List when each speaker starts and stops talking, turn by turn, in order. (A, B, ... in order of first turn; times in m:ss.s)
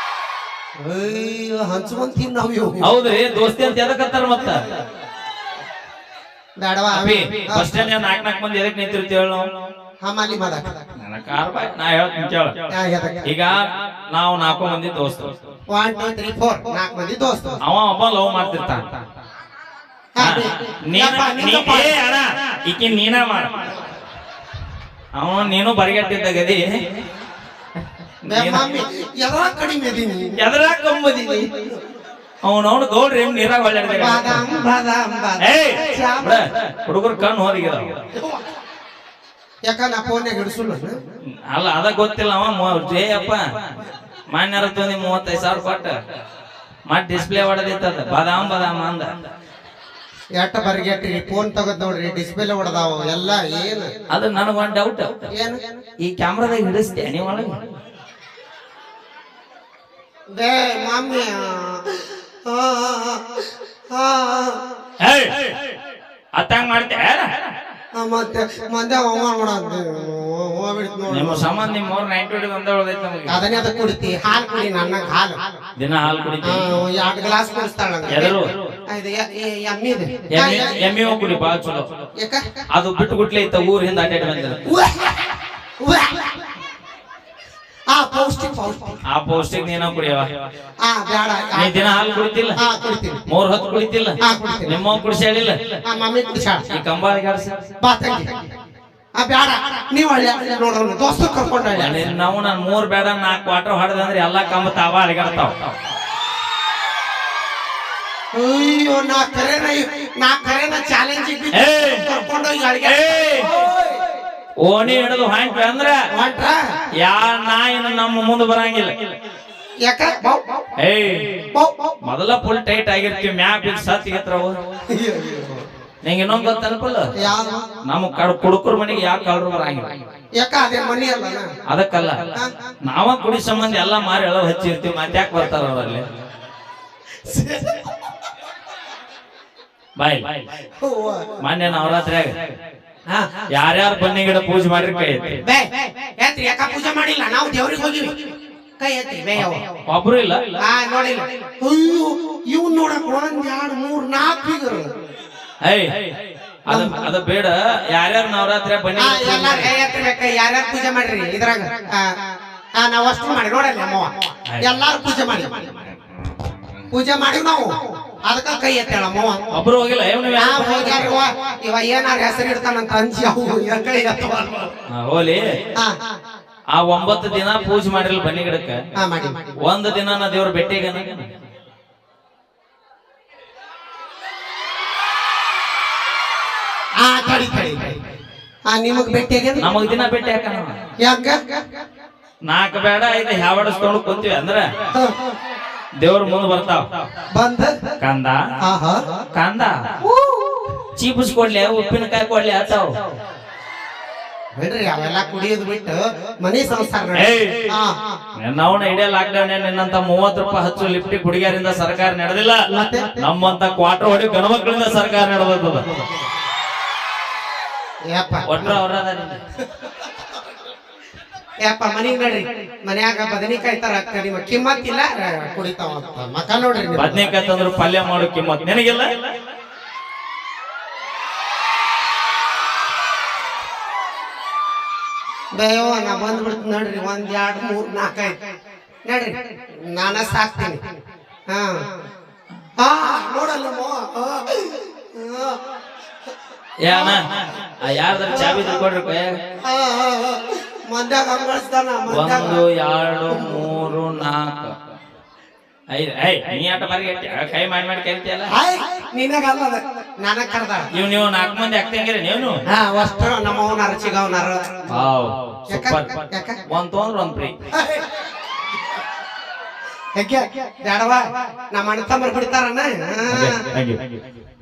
0:00.8-0:02.9 A
0:02.8-0:04.6 B
0:06.6-0:07.8 A
0:06.9-0:09.5 B
0:10.0-0:10.8 A
0:11.0-0:12.6 B
0:12.7-0:13.3 A
0:13.2-0:13.6 B
0:14.1-0:15.3 B
0:15.7-0:17.6 A
0:17.6-0:18.9 B
0:20.2-0:22.0 A
0:20.2-0:23.7 B
0:25.2-0:26.7 B
0:28.3-0:30.4 A
0:28.3-0:28.7 B
0:30.4-0:31.5 B
0:32.4-0:34.4 B
0:34.0-0:36.4 A
0:35.4-0:38.0 B
0:39.7-0:41.0 A
0:41.5-0:43.4 B
0:44.3-0:46.0 B
0:46.9-0:49.1 B
0:50.4-0:53.9 A
0:54.1-0:55.2 B
0:55.4-0:55.6 A
0:56.0-0:57.6 B
1:00.3-1:04.6 A
1:05.0-1:05.6 B
1:06.4-1:07.3 B
1:08.0-1:11.5 A
1:11.1-1:13.5 B
1:13.3-1:15.4 A
1:15.8-1:16.7 B
1:16.4-1:20.7 A
1:18.1-1:18.5 B
1:20.3-1:21.9 B
1:22.2-1:22.4 A
1:22.7-1:24.6 B
1:24.7-1:26.4 A
1:27.9-1:29.0 A
1:29.1-1:30.3 B
1:30.8-1:31.9 A
1:31.6-1:32.6 B
1:32.6-1:33.2 A
1:33.3-1:35.8 B
1:34.2-1:34.8 A
1:35.8-1:36.7 A
1:36.7-1:37.6 B
1:37.8-1:38.4 A
1:39.2-1:42.1 A
1:41.8-1:45.7 B
1:48.3-1:53.7 A
1:51.5-1:52.1 B
1:52.8-1:53.5 B
1:54.6-1:56.0 B
1:56.2-1:56.6 A
1:57.0-1:58.9 B
1:59.8-2:00.6 A
2:00.8-2:01.4 B
2:01.5-2:02.0 A
2:02.0-2:04.6 B
2:04.9-2:05.6 A
2:06.0-2:07.1 B
2:07.2-2:07.6 A
2:07.9-2:09.9 B
2:10.4-2:11.5 A
2:11.7-2:16.0 B
2:17.2-2:17.9 A
2:20.0-2:20.4 B
2:20.8-2:21.3 A
2:21.4-2:22.4 B
2:23.1-2:23.4 A
2:23.5-2:25.4 B
2:25.4-2:28.2 A
2:28.8-2:29.6 A
2:29.4-2:30.6 B
2:30.6-2:34.9 A
2:35.6-2:35.9 B
2:36.7-2:39.7 B
2:36.7-2:37.0 A
2:39.0-2:42.1 A
2:42.8-2:45.7 A
2:44.5-2:44.8 B
2:46.9-2:49.6 A
2:49.5-2:51.2 B
2:50.4-2:54.7 A
2:54.9-2:55.4 B
2:56.8-2:58.8 B
2:59.0-2:59.5 A
2:59.6-3:01.3 B
3:07.0-3:08.0 A
3:08.7-3:09.7 A
3:09.6-3:10.7 B
3:11.0-3:11.6 A
3:12.5-3:14.7 B
3:14.9-3:15.3 A
3:16.0-3:16.8 B
3:17.3-3:17.8 A
3:18.0-3:18.4 B
3:18.6-3:19.0 A
3:19.4-3:19.7 B
3:20.0-3:20.7 A
3:21.0-3:22.9 B
3:24.6-3:28.0 A
3:27.2-3:27.5 B
3:28.4-3:32.6 B
3:32.7-3:33.2 A
3:33.2-3:35.9 B
3:38.1-3:38.8 A
3:38.5-3:39.4 B
3:41.6-3:47.3 A
3:47.0-3:49.1 B
3:55.6-3:58.4 A
3:59.1-4:00.8 A
4:01.5-4:01.8 A
4:02.8-4:05.6 A
4:06.8-4:09.4 B
4:06.9-4:07.2 A
4:08.3-4:08.7 A
4:09.6-4:12.6 A
4:12.1-4:14.7 B
4:13.3-4:13.7 A
4:15.9-4:18.5 B
4:18.5-4:20.9 A
4:21.0-4:22.6 B
4:22.7-4:25.0 A
4:24.9-4:27.6 B
4:25.7-4:26.6 A
4:27.7-4:28.1 A
4:30.2-4:33.6 A
4:33.3-4:34.2 B